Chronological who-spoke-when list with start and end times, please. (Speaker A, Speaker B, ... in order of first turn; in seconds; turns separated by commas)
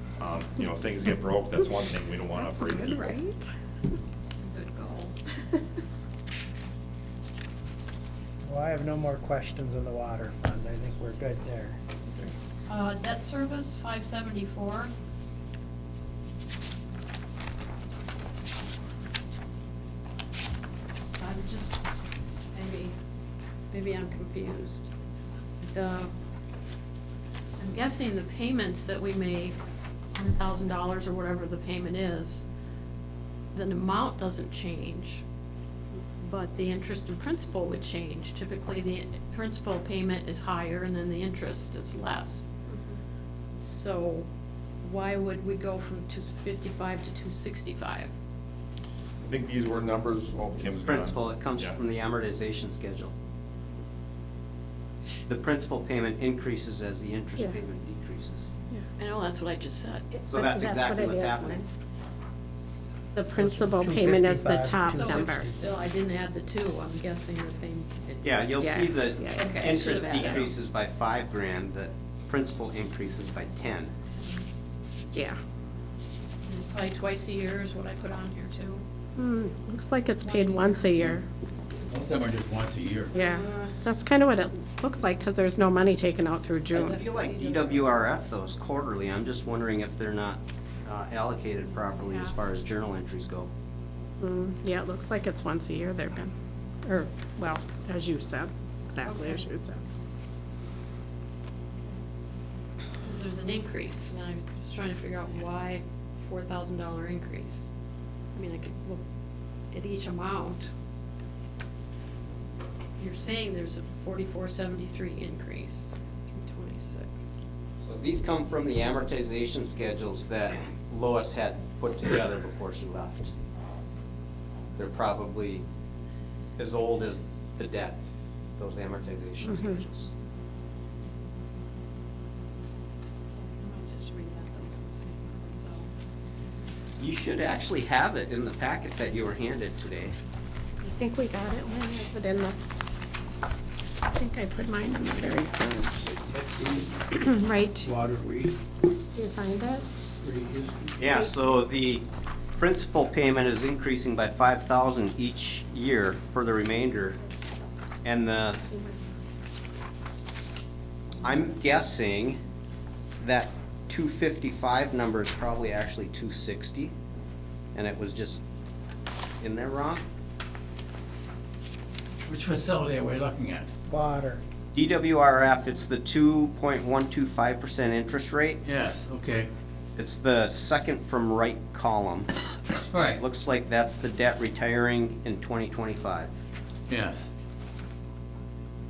Speaker A: 0.2-3.0, Speaker B: 2.4-3.5, Speaker C: 4.4-5.2, Speaker D: 8.5-12.3, Speaker C: 12.7-14.9, Speaker C: 21.2-21.8, Speaker C: 22.5-23.0, Speaker C: 23.7-24.9, Speaker C: 25.6-26.1, Speaker C: 27.6-29.6, Speaker C: 30.1-32.5, Speaker C: 33.5-35.2, Speaker C: 36.2-42.5, Speaker B: 42.7-43.0, Speaker C: 43.6-44.3, Speaker C: 44.8-48.1, Speaker A: 49.2-51.8, Speaker E: 50.8-53.1, Speaker E: 55.3-58.5, Speaker C: 59.0-60.2, Speaker B: 60.1-61.7, Speaker E: 60.3-61.6, Speaker B: 63.1-65.5, Speaker D: 63.4-65.6, Speaker C: 64.9-68.5, Speaker E: 68.2-73.9, Speaker B: 68.6-70.4, Speaker C: 69.3-70.5, Speaker C: 74.2-74.5, Speaker B: 75.1-75.4, Speaker C: 76.5-78.8, Speaker B: 79.2-81.2, Speaker C: 80.2-81.1, Speaker F: 81.9-83.2, Speaker B: 83.1-87.0, Speaker E: 83.2-83.7, Speaker C: 86.7-88.0, Speaker E: 86.7-93.5, Speaker B: 94.2-96.3, Speaker B: 96.8-99.8, Speaker C: 99.0-99.4, Speaker C: 103.0-107.7, Speaker C: 108.3-109.0, Speaker C: 109.7-110.7, Speaker C: 113.0-117.4, Speaker E: 117.8-123.3, Speaker E: 124.8-125.6, Speaker E: 126.6-128.0, Speaker E: 128.6-130.1, Speaker B: 129.4-129.8, Speaker C: 133.4-135.9, Speaker E: 137.0-140.1, Speaker B: 140.8-142.6, Speaker B: 144.1-146.1, Speaker F: 146.2-147.2, Speaker B: 147.2-147.9, Speaker F: 147.8-148.6, Speaker B: 149.2-149.9, Speaker F: 150.2-151.0, Speaker E: 151.0-152.1, Speaker E: 152.6-157.2, Speaker E: 158.0-158.7, Speaker E: 161.2-162.4, Speaker E: 163.2-166.9, Speaker E: 167.8-168.4, Speaker E: 169.4-170.0, Speaker F: 172.3-173.7, Speaker D: 173.9-174.4, Speaker E: 174.7-178.6, Speaker F: 178.6-179.5, Speaker E: 180.0-182.3, Speaker F: 182.9-183.2, Speaker E: 183.1-186.3, Speaker F: 186.9-187.3